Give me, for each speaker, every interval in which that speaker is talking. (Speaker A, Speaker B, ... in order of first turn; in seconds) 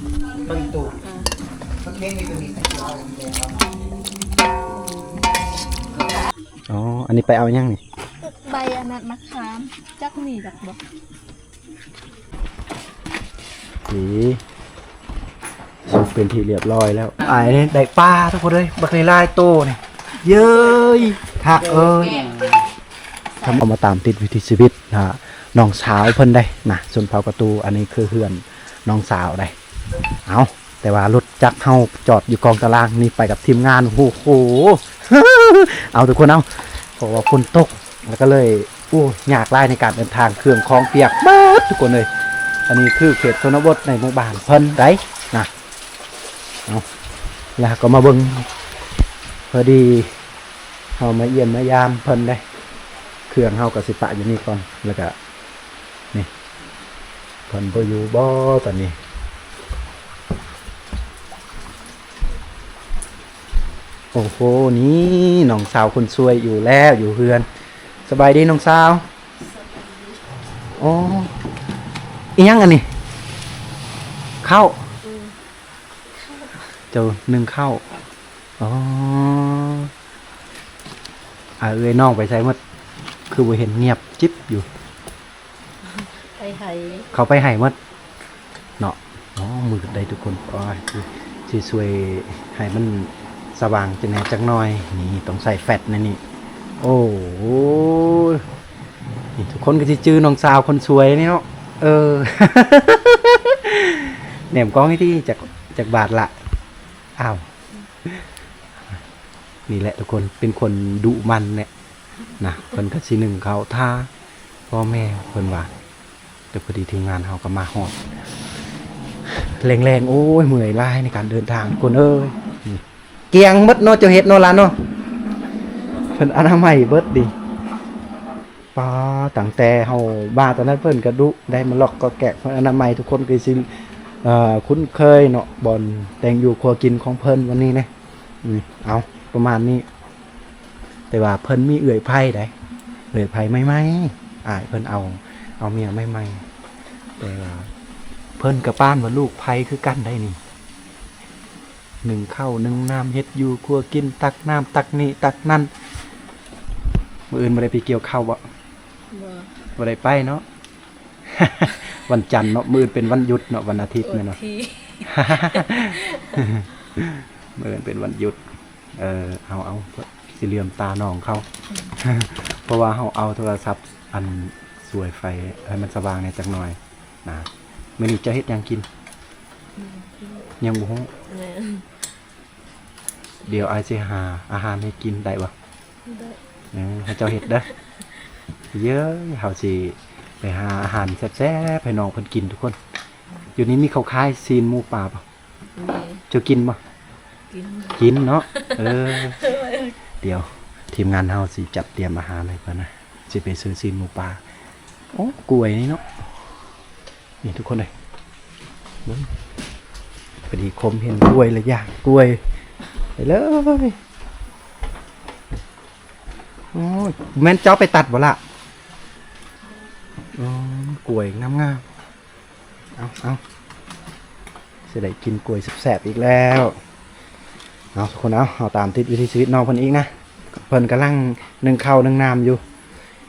Speaker A: 0.4-1.0, 1.8-3.7
Speaker B: 1.0-1.3, 8.2-10.8, 22.1-22.4, 69.4-70.3, 75.0-75.3, 86.4-87.1, 159.1-159.5, 164.1-166.4, 179.8-180.4, 181.3-181.8, 186.1-186.4, 195.8-196.2, 197.5-198.0, 198.5-199.9
Speaker C: 6.7-7.8, 13.9-14.4, 15.8-22.3, 23.4-29.5, 30.2-42.1, 42.7-45.5, 47.6-48.5, 49.5-50.1, 51.0-52.4, 53.3-55.1, 57.5-59.0, 64.1-67.5, 68.1-69.0, 70.8-71.3, 72.3-72.8, 74.4-74.9, 76.9-77.8, 78.6-79.9, 81.6-82.6, 83.3-84.7, 87.1-87.8, 88.8-96.2, 96.8-98.4, 99.4-106.3, 107.2-107.4, 109.7-111.7, 112.4-114.1, 114.7-115.7, 116.5-118.0, 119.4-124.7, 126.1-127.3, 128.7-133.7, 134.2-137.9, 138.4-139.8, 141.1-142.5, 143.1-146.4, 147.2-147.7, 148.4-150.4, 152.0-155.7, 157.3-158.4, 159.8-160.4, 161.3-164.4, 165.1-168.4, 168.9-171.4, 172.0-178.8, 180.6-181.1, 183.4-185.5, 186.7-187.7, 188.7-192.8, 193.6-195.2, 196.3-196.8, 197.9-199.5, 200.2-204.4, 205.1-206.0, 207.4-207.9, 210.5-212.4, 213.2-214.0, 216.7-218.4, 220.3-221.8, 223.0-223.4, 224.9-226.8, 227.9-232.6